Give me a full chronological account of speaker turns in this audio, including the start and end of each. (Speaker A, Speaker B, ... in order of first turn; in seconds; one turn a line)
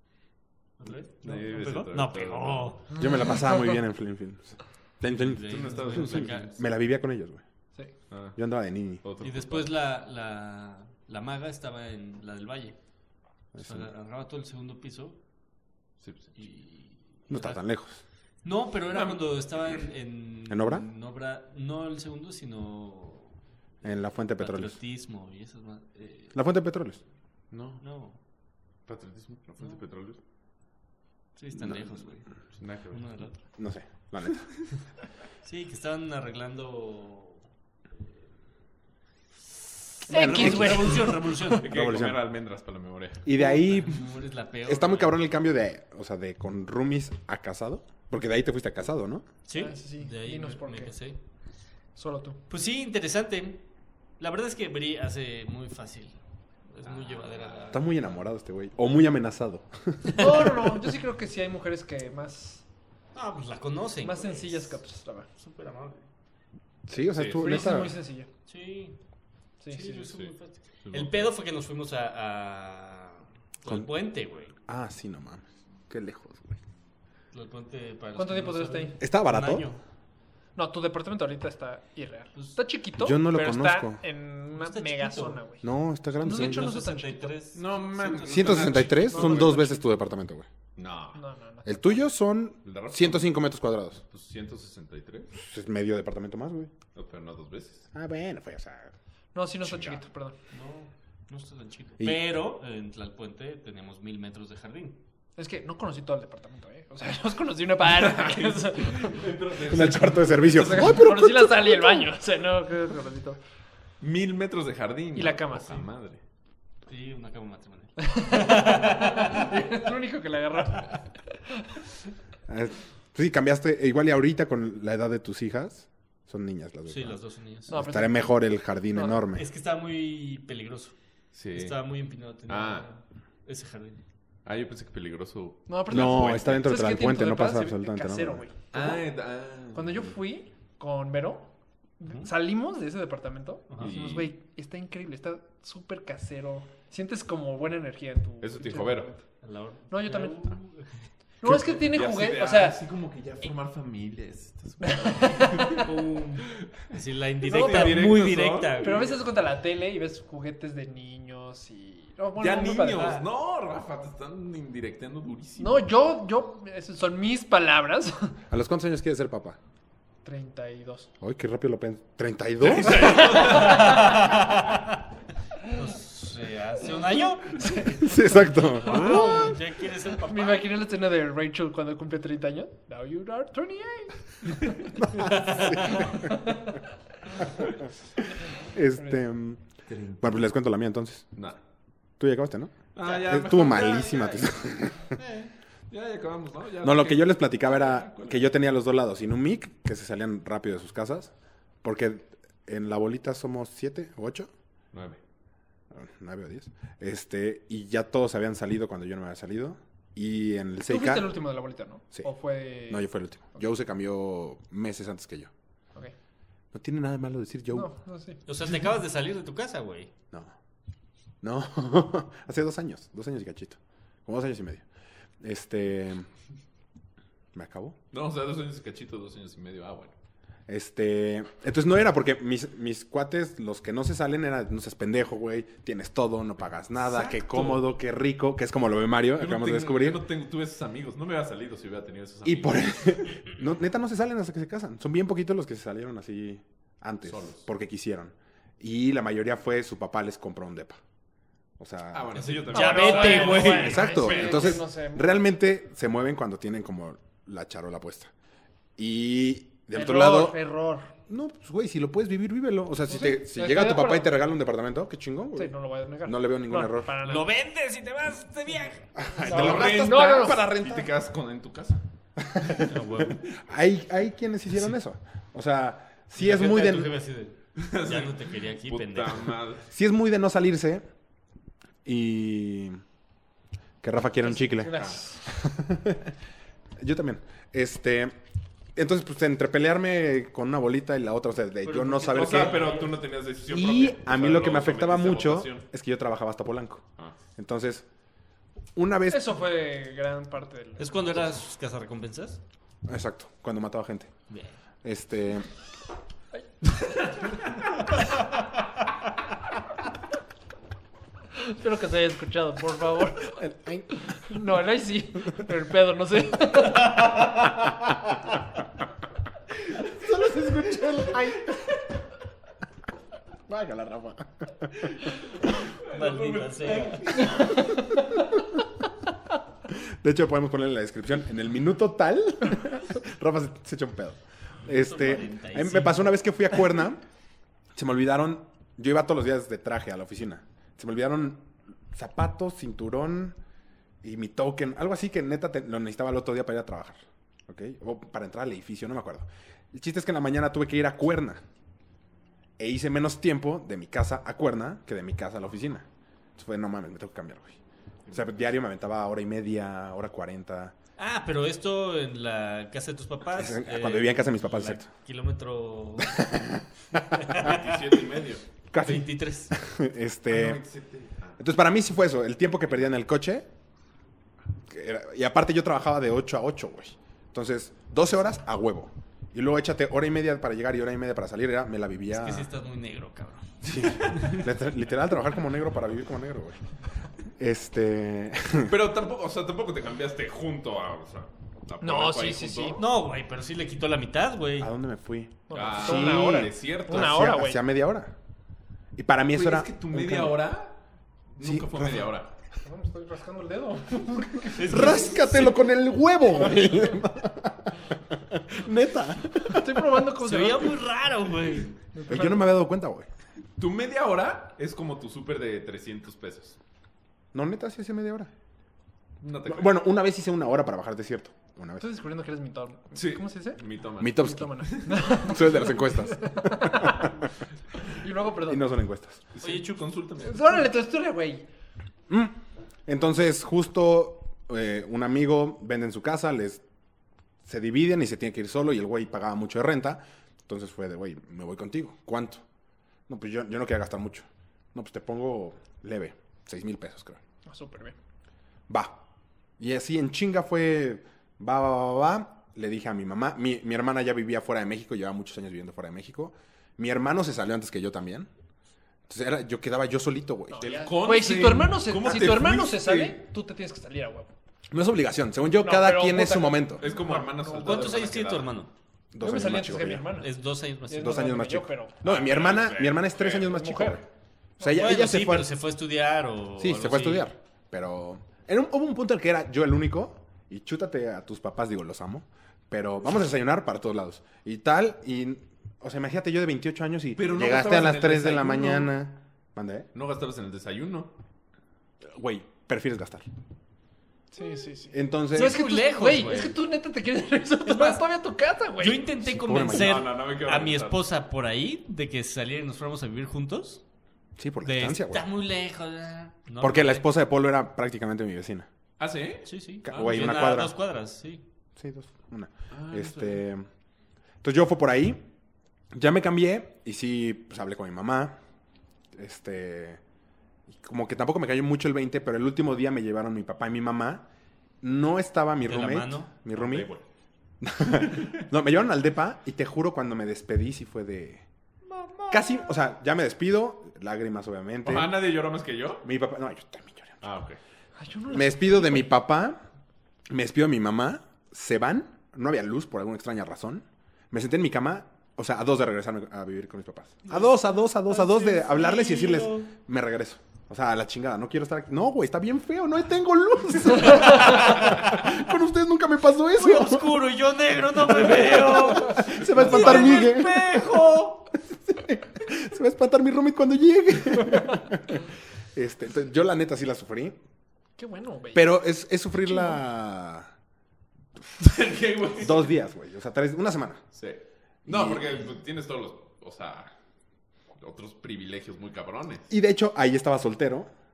Speaker A: 0.8-3.0
Speaker B: 1.2-2.8
Speaker C: 3.0-7.4
Speaker A: 5.2-6.5
Speaker B: 5.4-6.6
Speaker B: 8.1-8.4
Speaker C: 8.3-9.0
Speaker B: 9.0-9.7
Speaker A: 9.2-12.8
Speaker C: 13.5-13.9
Speaker A: 13.6-15.2
Speaker B: 16.0-16.3
Speaker A: 16.4-17.6
Speaker C: 17.3-18.0
Speaker A: 18.4-23.4
Speaker B: 18.9-19.2
Speaker C: 20.5-20.9
Speaker C: 23.8-24.8
Speaker A: 24.4-26.4
Speaker C: 26.3-27.0
Speaker B: 27.5-27.8
Speaker A: 27.8-28.2
Speaker B: 28.9-30.2
Speaker A: 31.4-32.3
Speaker B: 32.6-33.0
Speaker A: 32.9-33.4
Speaker C: 33.6-34.5
Speaker A: 35.4-37.4
Speaker A: 40.0-41.7
Speaker D: 40.1-41.5
Speaker C: 40.1-42.2
Speaker B: 41.5-43.3
Speaker C: 43.2-44.0
Speaker A: 43.3-45.2
Speaker C: 44.6-49.2
Speaker A: 49.5-51.2
Speaker D: 49.5-50.9
Speaker D: 52.0-52.4
Speaker A: 52.5-53.6
Speaker A: 54.2-58.0
Speaker B: 56.9-57.5
Speaker C: 57.7-60.5
Speaker D: 60.2-62.6
Speaker A: 63.1-64.8
Speaker D: 64.0-65.3
Speaker A: 65.4-66.0
Speaker C: 66.9-68.0
Speaker B: 67.1-67.6
Speaker D: 67.4-68.3
Speaker A: 68.5-69.0
Speaker D: 69.6-70.1
Speaker A: 69.7-74.5
Speaker B: 70.8-71.3
Speaker C: 74.7-76.6
Speaker A: 77.3-79.8
Speaker D: 78.2-79.0
Speaker C: 79.0-79.7
Speaker D: 80.5-85.7
Speaker C: 83.0-84.0
Speaker A: 84.5-85.4
Speaker C: 85.6-86.7
Speaker D: 86.2-87.3
Speaker A: 86.3-89.5
Speaker B: 87.5-89.6
Speaker C: 88.2-90.5
Speaker D: 89.0-89.8
Speaker B: 90.8-91.2
Speaker D: 91.1-92.0
Speaker C: 91.6-94.0
Speaker B: 92.6-93.3
Speaker B: 94.1-95.3
Speaker C: 95.3-96.7
Speaker B: 96.9-97.9
Speaker C: 97.9-98.9
Speaker D: 99.3-100.3
Speaker B: 99.6-100.0
Speaker A: 100.5-105.0
Speaker D: 105.4-109.3
Speaker B: 107.8-110.9
Speaker C: 109.6-112.1
Speaker D: 110.4-113.4
Speaker B: 114.0-116.2
Speaker D: 115.1-115.8
Speaker A: 116.8-119.5
Speaker D: 118.0-121.0
Speaker C: 122.5-129.4
Speaker A: 126.9-127.8
Speaker D: 127.7-128.3
Speaker D: 128.9-129.2
Speaker A: 129.3-130.9
Speaker B: 131.3-131.8
Speaker A: 131.5-134.0
Speaker B: 132.5-132.9
Speaker B: 134.4-136.7
Speaker D: 135.7-139.0
Speaker C: 135.9-138.4
Speaker B: 138.7-140.1
Speaker D: 139.7-149.2
Speaker B: 143.8-144.3
Speaker B: 148.4-149.1
Speaker A: 149.4-151.1
Speaker D: 149.9-150.6
Speaker D: 151.4-152.8
Speaker B: 151.5-155.9
Speaker D: 154.8-155.8
Speaker A: 155.7-159.0
Speaker B: 157.4-159.1
Speaker D: 157.4-158.2
Speaker D: 158.8-163.2
Speaker B: 162.4-165.8
Speaker D: 165.6-168.4
Speaker C: 168.5-169.6
Speaker D: 170.2-171.1
Speaker C: 171.2-173.4
Speaker B: 172.6-174.0
Speaker A: 172.9-175.0
Speaker A: 175.7-180.6
Speaker C: 177.8-179.4
Speaker B: 178.9-179.5
Speaker D: 178.9-179.5
Speaker D: 180.2-184.9
Speaker C: 185.0-186.1
Speaker A: 185.2-186.0
Speaker D: 186.0-186.8
Speaker C: 188.5-189.6
Speaker B: 189.9-190.2
Speaker C: 190.2-191.3
Speaker C: 192.2-195.1
Speaker B: 192.9-194.2
Speaker A: 193.0-195.5
Speaker B: 195.9-198.5
Speaker C: 196.8-201.3
Speaker C: 201.8-204.5
Speaker B: 204.9-205.2
Speaker C: 205.9-211.3
Speaker D: 210.9-213.1
Speaker C: 212.9-215.5
Speaker C: 216.7-217.9
Speaker D: 217.7-218.4
Speaker A: 218.4-220.1
Speaker C: 221.4-224.8
Speaker C: 225.4-226.3
Speaker C: 227.5-228.0
Speaker B: 228.1-230.1
Speaker C: 230.7-240.2
Speaker B: 237.1-237.8
Speaker B: 239.4-243.2
Speaker C: 242.4-251.0
Speaker B: 247.2-247.6
Speaker C: 251.8-252.5
Speaker B: 252.1-254.8
Speaker A: 252.3-254.4
Speaker D: 252.7-255.4
Speaker C: 253.5-258.3
Speaker C: 259.0-260.6
Speaker D: 259.9-261.1
Speaker C: 261.3-265.7
Speaker D: 263.1-264.3
Speaker D: 265.6-267.5
Speaker C: 266.2-267.1
Speaker A: 267.2-269.1
Speaker C: 269.1-270.6
Speaker B: 269.4-272.0
Speaker D: 269.4-270.7
Speaker C: 272.4-277.1
Speaker A: 272.7-273.4
Speaker A: 276.4-279.5
Speaker B: 277.8-279.9
Speaker C: 279.9-281.0
Speaker C: 282.0-283.0
Speaker C: 284.0-286.3
Speaker D: 284.4-285.4
Speaker C: 287.0-288.4
Speaker C: 288.9-292.9
Speaker A: 291.8-293.2
Speaker B: 292.3-295.8
Speaker C: 293.7-297.0
Speaker C: 297.6-298.1
Speaker C: 298.9-299.6
Speaker D: 299.3-301.4
Speaker A: 301.0-302.6
Speaker C: 303.1-304.3
Speaker A: 304.5-304.8
Speaker C: 305.0-305.7
Speaker D: 311.5-313.6
Speaker C: 313.4-314.1
Speaker D: 314.2-317.2
Speaker C: 320.0-321.9
Speaker C: 323.7-325.1
Speaker B: 326.0-327.8
Speaker A: 326.1-327.7
Speaker C: 329.9-337.2
Speaker A: 334.9-336.3
Speaker C: 337.9-343.6
Speaker C: 344.2-351.6
Speaker C: 352.8-357.8
Speaker B: 358.2-358.6
Speaker C: 358.3-360.9
Speaker A: 361.2-366.5
Speaker C: 363.5-365.1
Speaker C: 366.2-367.8
Speaker A: 367.4-367.9
Speaker B: 367.5-368.6
Speaker C: 368.9-370.8
Speaker A: 369.0-369.7
Speaker B: 370.5-371.6
Speaker C: 371.6-373.7
Speaker C: 374.9-382.7
Speaker A: 382.3-384.6
Speaker C: 383.8-386.8
Speaker C: 387.6-388.9
Speaker B: 388.8-393.0
Speaker D: 392.0-393.0
Speaker A: 393.0-394.9
Speaker C: 394.8-398.3
Speaker D: 395.7-397.8
Speaker B: 395.7-397.4
Speaker C: 399.1-400.6
Speaker B: 399.5-401.0
Speaker B: 401.5-402.5
Speaker C: 401.6-402.2
Speaker D: 402.8-405.7
Speaker A: 404.7-405.8
Speaker C: 404.8-410.1
Speaker D: 409.6-411.0
Speaker A: 410.3-412.0
Speaker D: 412.1-412.8
Speaker C: 412.3-413.3
Speaker B: 413.8-416.8
Speaker C: 417.5-418.5
Speaker B: 419.4-420.0
Speaker C: 419.6-422.0
Speaker D: 422.0-423.8
Speaker B: 423.1-425.4
Speaker C: 424.2-427.4
Speaker D: 424.3-427.3
Speaker D: 428.0-428.8
Speaker C: 428.6-429.4
Speaker B: 429.5-430.9
Speaker D: 430.4-431.6
Speaker C: 432.3-436.8
Speaker C: 437.6-442.6
Speaker C: 443.3-447.4
Speaker D: 447.6-448.1
Speaker C: 448.9-449.2
Speaker C: 449.8-458.5
Speaker C: 459.3-461.0
Speaker D: 460.7-464.5
Speaker B: 460.8-463.4
Speaker C: 464.9-467.0
Speaker D: 465.8-468.3
Speaker B: 467.0-468.7
Speaker A: 467.8-468.9
Speaker C: 469.3-470.3
Speaker D: 469.4-470.5
Speaker A: 470.3-471.4
Speaker D: 471.1-472.2
Speaker C: 471.1-474.2
Speaker B: 472.2-473.7
Speaker D: 473.6-474.2
Speaker C: 474.8-475.7
Speaker A: 474.9-477.5
Speaker C: 476.8-490.1
Speaker B: 487.4-489.1
Speaker B: 490.1-491.3
Speaker C: 492.2-493.4
Speaker D: 494.5-499.2
Speaker C: 495.1-495.8
Speaker A: 495.5-496.8
Speaker A: 497.9-498.2
Speaker A: 499.0-504.0
Speaker C: 499.4-500.3
Speaker B: 499.8-501.2
Speaker C: 504.6-505.4
Speaker A: 504.8-507.2
Speaker C: 506.8-508.9
Speaker B: 509.2-510.7
Speaker A: 509.6-511.6
Speaker C: 510.0-510.9
Speaker C: 512.0-513.9
Speaker B: 512.9-513.6
Speaker C: 514.6-515.4
Speaker C: 516.1-518.6
Speaker C: 519.3-520.2
Speaker C: 520.9-524.5
Speaker C: 525.0-527.1
Speaker A: 525.9-526.5
Speaker B: 526.7-527.2
Speaker C: 527.8-531.6
Speaker A: 532.1-532.7
Speaker C: 532.5-535.3
Speaker B: 535.0-536.2
Speaker C: 536.2-537.5
Speaker B: 537.4-537.8
Speaker D: 538.2-539.3
Speaker C: 538.5-539.8
Speaker C: 540.5-557.4
Speaker A: 547.5-549.9
Speaker A: 554.2-555.5
Speaker A: 556.7-561.7
Speaker C: 558.2-561.2
Speaker C: 561.9-567.6
Speaker D: 568.2-569.0
Speaker C: 568.7-570.7
Speaker D: 569.7-570.0
Speaker B: 571.8-572.9
Speaker C: 572.6-574.2
Speaker B: 574.3-577.1
Speaker C: 575.0-575.6
Speaker B: 578.0-579.7
Speaker C: 579.7-581.1